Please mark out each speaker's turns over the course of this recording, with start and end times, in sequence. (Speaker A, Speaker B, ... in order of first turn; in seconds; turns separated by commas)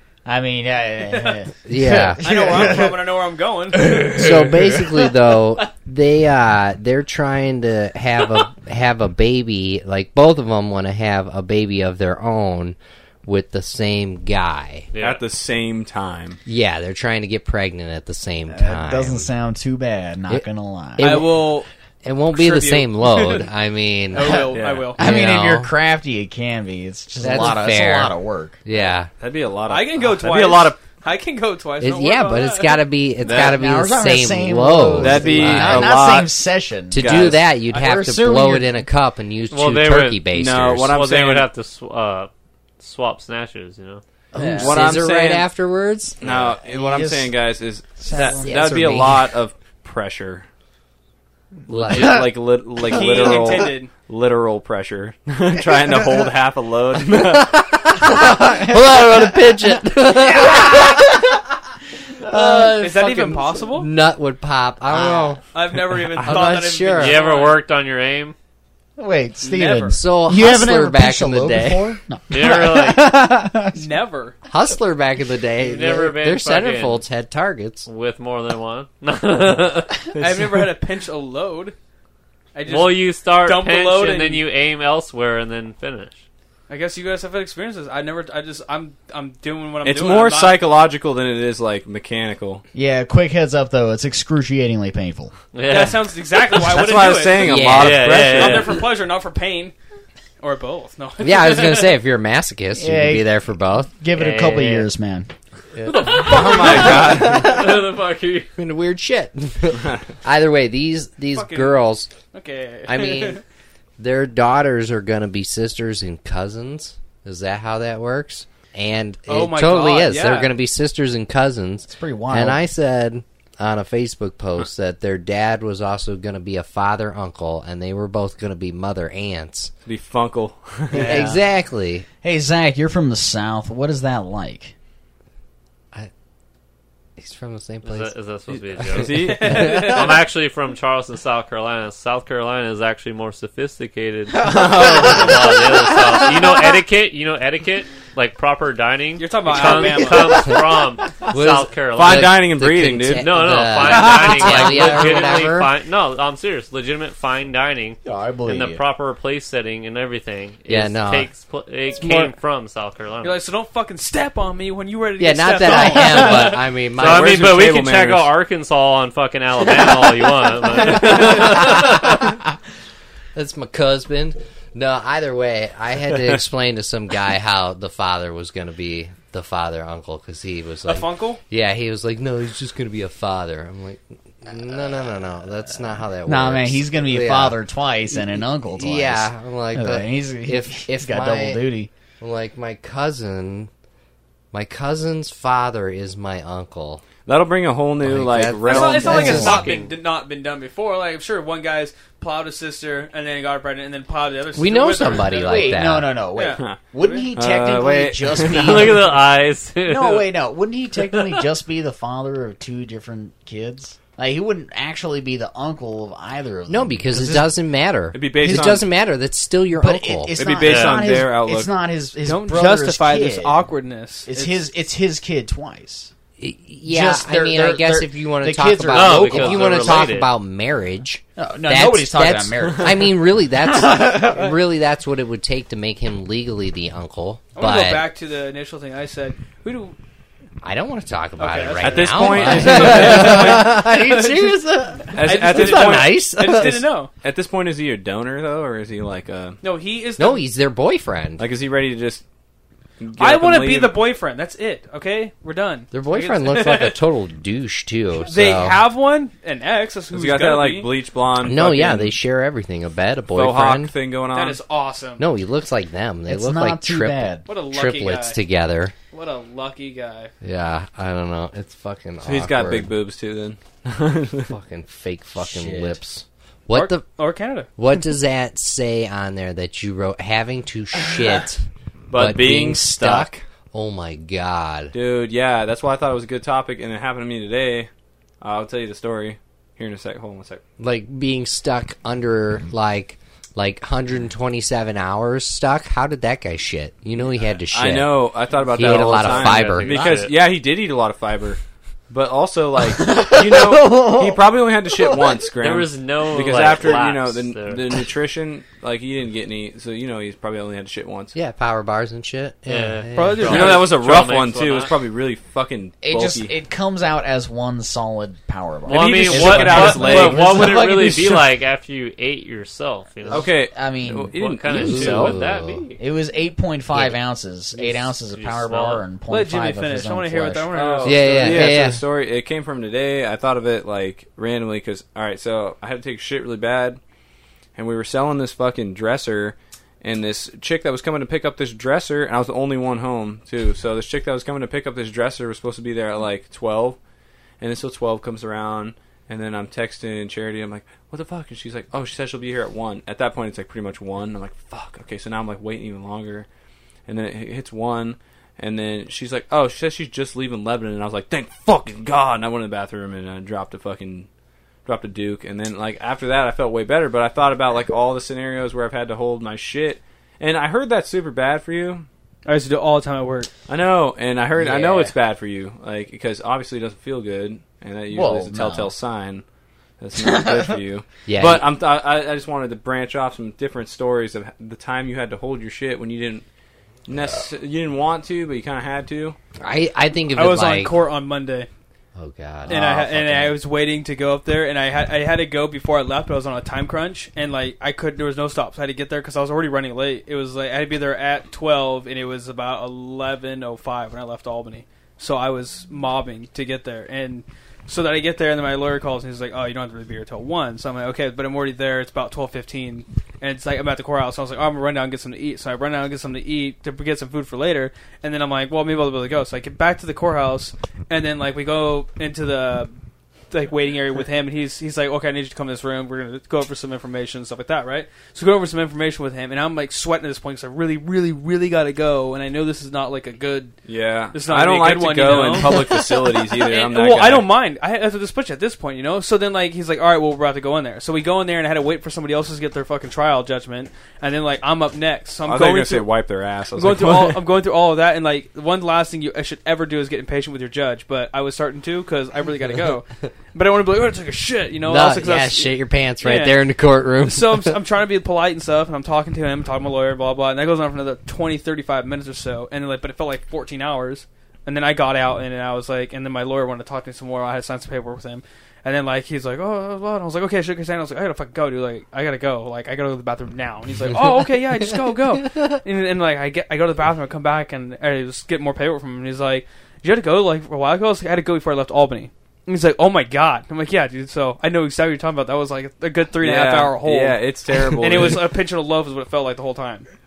Speaker A: 0.2-3.0, Speaker B: 1.1-1.4, Speaker C: 1.6-2.6, Speaker B: 2.2-4.2, Speaker A: 3.8-4.6, Speaker C: 4.1-14.9, Speaker D: 14.9-15.2, Speaker E: 15.0-16.4, Speaker C: 16.4-19.3, Speaker A: 18.5-21.4, Speaker C: 20.3-25.7, Speaker B: 21.0-21.7, Speaker B: 22.3-23.5, Speaker B: 24.1-25.0, Speaker E: 24.5-24.9, Speaker A: 24.9-28.6, Speaker C: 27.2-29.1, Speaker E: 29.1-30.8, Speaker B: 29.7-32.8, Speaker C: 31.8-36.0, Speaker E: 33.2-33.6, Speaker A: 33.3-38.8, Speaker E: 35.0-36.3, Speaker C: 36.9-40.9, Speaker E: 36.9-37.4, Speaker D: 39.5-40.2, Speaker E: 40.3-41.5, Speaker D: 40.8-44.0, Speaker A: 44.3-44.8, Speaker C: 44.3-46.2, Speaker E: 44.5-45.5, Speaker E: 46.2-50.5, Speaker A: 46.2-47.3, Speaker A: 48.0-49.0, Speaker C: 48.2-49.2, Speaker C: 51.7-52.3, Speaker E: 51.8-57.6, Speaker B: 52.8-53.9, Speaker C: 57.3-61.1, Speaker A: 58.1-61.3, Speaker A: 62.2-62.9, Speaker C: 62.2-65.4, Speaker B: 62.7-63.9, Speaker A: 65.0-65.3, Speaker B: 65.5-67.6, Speaker E: 66.2-66.5, Speaker C: 66.2-67.2, Speaker D: 67.0-68.3, Speaker A: 69.0-73.9, Speaker B: 69.4-70.0, Speaker C: 69.9-72.0, Speaker D: 72.3-73.1, Speaker B: 73.7-74.3, Speaker C: 74.5-77.9, Speaker D: 75.6-77.0, Speaker D: 77.8-80.0, Speaker E: 80.1-80.5, Speaker B: 80.2-81.7, Speaker B: 82.5-84.4, Speaker D: 82.7-86.2, Speaker B: 86.7-90.6, Speaker E: 89.8-92.6, Speaker A: 92.7-95.3, Speaker D: 95.5-96.1, Speaker B: 95.7-99.7, Speaker E: 96.5-98.8, Speaker C: 97.4-98.2, Speaker D: 97.8-98.8, Speaker B: 100.4-102.0, Speaker C: 101.2-103.9, Speaker A: 102.8-103.3, Speaker A: 103.9-105.3, Speaker D: 104.1-104.9, Speaker C: 105.7-107.8, Speaker D: 105.9-108.5, Speaker E: 106.0-107.5, Speaker B: 106.5-106.9, Speaker C: 108.6-112.1, Speaker E: 109.8-110.0, Speaker B: 111.3-111.8, Speaker B: 112.3-113.4, Speaker C: 112.8-113.4, Speaker C: 114.0-129.7, Speaker B: 119.3-120.5, Speaker A: 121.9-122.6, Speaker E: 129.8-131.3, Speaker A: 130.9-131.4, Speaker C: 130.9-132.1, Speaker A: 132.2-134.7, Speaker C: 137.2-138.1, Speaker D: 137.8-152.4, Speaker E: 138.9-139.9, Speaker B: 139.2-140.2, Speaker C: 139.4-140.0, Speaker E: 144.3-145.6, Speaker B: 149.2-150.6, Speaker C: 151.3-155.7, Speaker E: 151.9-153.3, Speaker D: 153.1-163.4, Speaker A: 154.4-155.3, Speaker A: 158.0-158.8, Speaker C: 160.7-161.3, Speaker B: 162.0-162.3, Speaker B: 163.2-166.6, Speaker C: 165.2-167.5, Speaker D: 166.0-172.3, Speaker E: 167.0-168.3, Speaker C: 171.1-171.8, Speaker C: 173.3-187.6, Speaker B: 180.9-181.4, Speaker A: 186.2-191.9, Speaker C: 188.1-191.6, Speaker C: 192.2-193.7, Speaker C: 194.5-197.0, Speaker E: 197.2-199.7, Speaker C: 198.0-199.7, Speaker B: 198.6-207.3, Speaker D: 199.4-199.8, Speaker C: 204.5-206.2, Speaker A: 205.3-209.1, Speaker E: 206.6-209.1, Speaker D: 208.4-210.3, Speaker A: 209.8-217.5, Speaker D: 211.0-211.4, Speaker C: 216.7-220.3, Speaker E: 218.1-218.8, Speaker A: 219.8-223.6, Speaker E: 220.3-221.7, Speaker D: 220.6-221.1, Speaker B: 222.2-224.6, Speaker A: 224.2-226.1, Speaker C: 226.4-238.1, Speaker A: 226.8-230.1, Speaker D: 228.9-230.3, Speaker A: 231.4-234.5, Speaker B: 237.6-239.9, Speaker C: 240.6-246.8, Speaker B: 241.4-244.6, Speaker E: 241.8-243.7, Speaker A: 242.4-243.0, Speaker E: 245.1-249.6, Speaker B: 245.2-247.1, Speaker B: 249.6-250.4, Speaker C: 250.2-251.4, Speaker E: 251.4-252.2, Speaker E: 253.0-254.0, Speaker B: 253.2-257.0, Speaker C: 255.9-258.8, Speaker B: 258.2-260.9, Speaker E: 260.1-262.2, Speaker C: 261.4-263.9, Speaker E: 263.3-264.6, Speaker B: 264.3-265.2, Speaker C: 265.2-268.9, Speaker A: 266.3-267.5, Speaker B: 267.5-268.4, Speaker B: 269.1-270.3, Speaker C: 270.4-272.9, Speaker E: 272.2-274.5, Speaker C: 274.5-277.0, Speaker A: 275.4-276.0, Speaker B: 276.7-277.7, Speaker C: 277.8-284.9, Speaker E: 282.1-283.4, Speaker E: 284.9-287.9, Speaker E: 288.4-290.6, Speaker C: 290.8-300.0, Speaker E: 297.7-301.6, Speaker D: 298.8-300.3, Speaker E: 302.1-311.3, Speaker A: 302.9-305.3, Speaker D: 305.6-307.9, Speaker C: 311.3-313.7, Speaker D: 312.7-314.9, Speaker B: 313.1-314.0, Speaker E: 313.5-316.5, Speaker A: 316.0-320.8, Speaker E: 318.9-321.4, Speaker D: 318.9-323.6, Speaker A: 323.3-324.4, Speaker E: 323.3-325.4, Speaker D: 324.3-326.0, Speaker C: 324.7-325.8, Speaker A: 326.0-330.7, Speaker D: 327.9-329.0, Speaker B: 329.3-331.7, Speaker E: 330.7-337.0, Speaker C: 331.0-332.0, Speaker E: 337.7-347.0, Speaker E: 347.6-356.5, Speaker E: 357.1-364.3, Speaker E: 364.8-372.1, Speaker B: 372.4-373.5, Speaker E: 373.7-379.4, Speaker A: 378.1-378.9, Speaker E: 380.0-386.4, Speaker A: 380.1-380.8, Speaker C: 381.2-381.7, Speaker E: 387.1-389.4, Speaker C: 389.6-390.9, Speaker B: 390.3-391.7, Speaker C: 392.1-393.6, Speaker B: 392.7-422.9, Speaker B: 423.5-433.8, Speaker E: 433.9-437.5, Speaker B: 434.3-446.1, Speaker E: 445.4-447.4, Speaker B: 446.7-456.6, Speaker C: 454.9-457.8, Speaker B: 457.2-490.1, Speaker E: 486.4-488.5